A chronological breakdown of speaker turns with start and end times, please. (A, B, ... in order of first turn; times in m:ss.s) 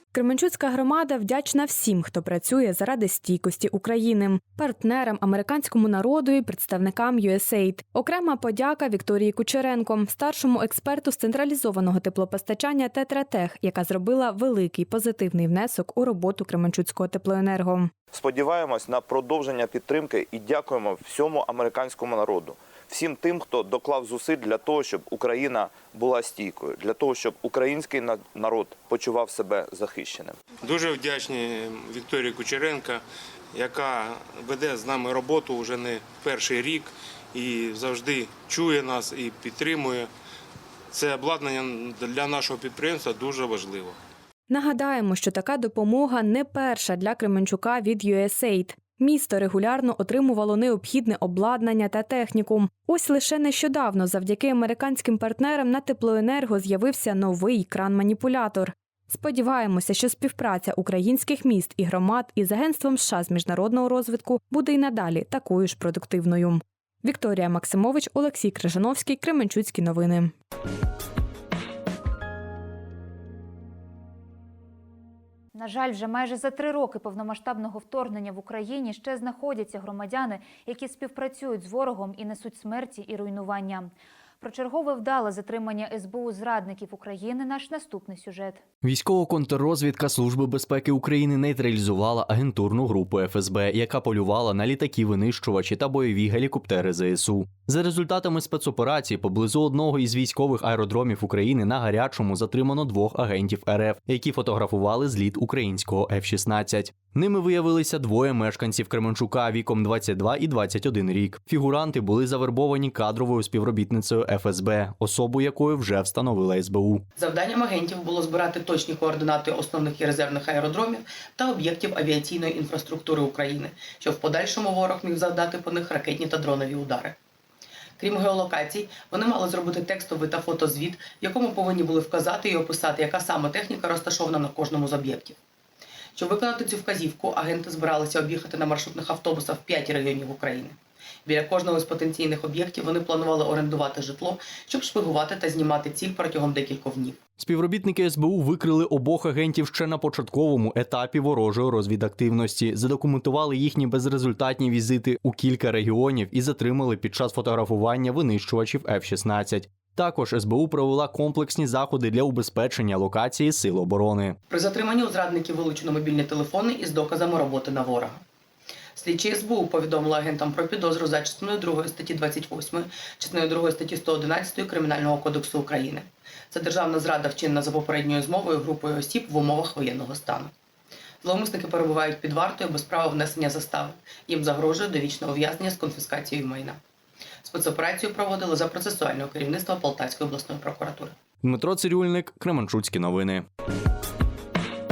0:00.1-0:17.9 A
0:18.1-0:30.4 B
0:30.6-0:33.0 C
0:33.5-0:40.1 C
0:40.9-0:44.0 C
0:44.5-1:10.3 A
1:15.5-1:28.6 D
1:28.8-1:57.0 E
1:57.2-2:07.2 F
2:08.0-2:15.4 F
2:16.2-2:27.2 F
2:27.4-2:44.4 E
2:44.5-2:48.2 F
2:49.0-3:00.5 F
3:01.2-3:06.8 F
3:07.4-3:11.2 F
3:11.4-3:13.5 E